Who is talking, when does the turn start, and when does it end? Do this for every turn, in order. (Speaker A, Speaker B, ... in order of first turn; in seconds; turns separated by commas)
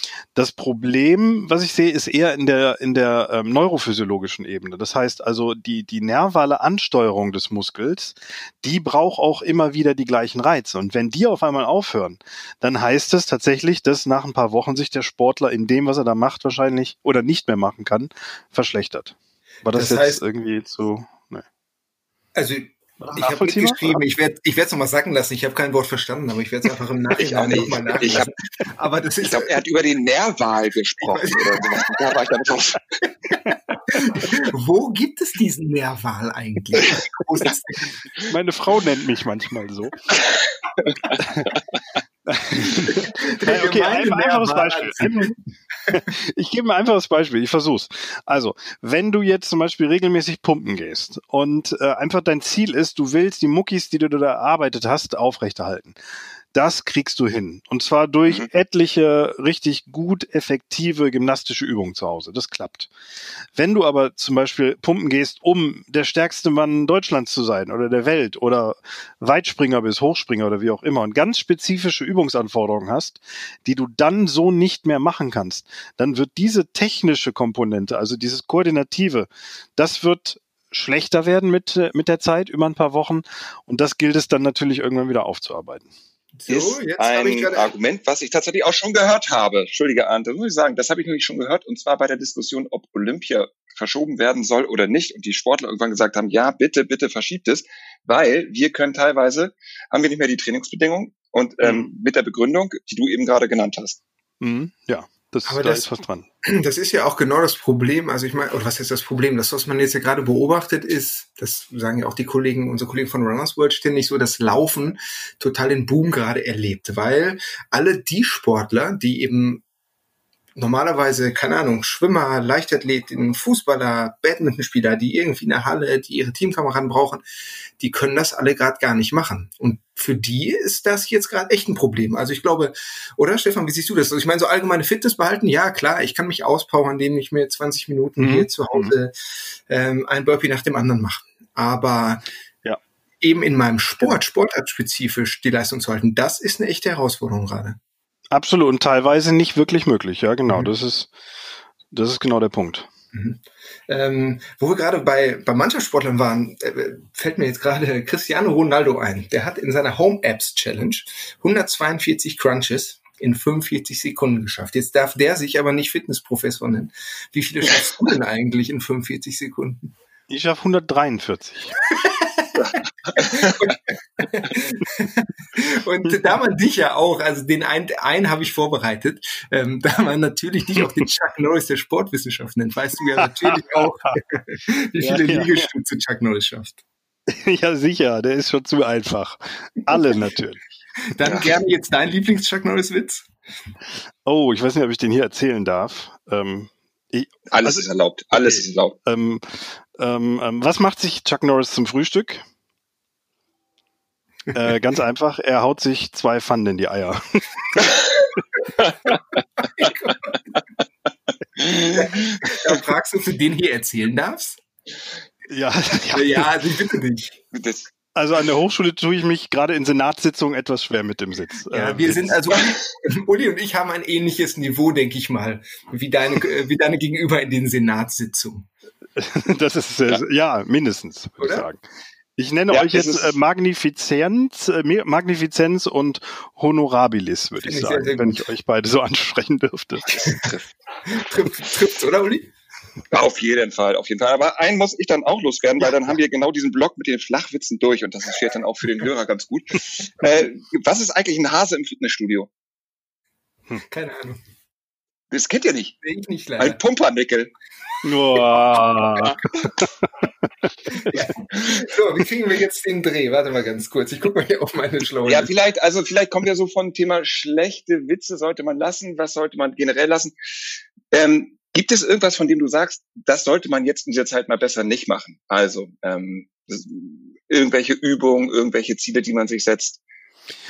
Speaker A: 0.3-21.4, Speaker B: 19.7-20.2, Speaker B: 22.3-29.5, Speaker A: 23.1-24.0, Speaker C: 27.2-28.3, Speaker C: 29.2-32.8, Speaker B: 31.0-31.9, Speaker B: 33.9-37.9, Speaker A: 38.3-40.0, Speaker C: 41.0-41.6, Speaker A: 41.1-41.5, Speaker A: 42.3-45.4, Speaker B: 42.9-45.3, Speaker A: 45.9-56.0, Speaker A: 56.5-62.9, Speaker A: 63.5-85.9, Speaker B: 86.4-87.7, Speaker C: 86.5-104.0, Speaker A: 101.6-101.9, Speaker A: 104.4-106.2, Speaker B: 105.5-105.9, Speaker B: 106.4-119.6, Speaker B: 120.6-127.2, Speaker B: 127.8-139.1, Speaker A: 138.2-138.9, Speaker B: 139.7-142.2, Speaker B: 143.2-147.8, Speaker A: 148.3-151.1, Speaker A: 151.9-152.9, Speaker B: 153.1-169.9, Speaker A: 170.3-171.8, Speaker B: 172.0-172.5, Speaker C: 172.5-173.8, Speaker B: 173.5-186.8, Speaker A: 183.2-184.1, Speaker A: 185.0-185.7, Speaker A: 187.3-190.6, Speaker B: 191.1-193.3, Speaker A: 194.2-202.4, Speaker C: 197.5-198.9, Speaker A: 204.5-207.8, Speaker B: 209.8-210.4, Speaker C: 211.6-212.4, Speaker B: 211.8-214.6, Speaker A: 215.5-216.5, Speaker B: 216.1-217.4, Speaker C: 217.5-217.9, Speaker A: 218.1-222.3, Speaker B: 221.7-228.7, Speaker A: 229.2-231.8, Speaker B: 231.4-231.7, Speaker A: 232.4-240.3, Speaker C: 232.7-233.4, Speaker B: 237.6-238.4, Speaker C: 240.0-240.7, Speaker B: 241.1-242.5, Speaker C: 243.1-252.5, Speaker B: 253.9-254.4, Speaker C: 255.3-255.9, Speaker B: 256.0-256.8, Speaker C: 256.6-257.5, Speaker A: 258.0-259.9, Speaker B: 261.0-265.5, Speaker C: 265.2-270.4, Speaker C: 271.1-280.0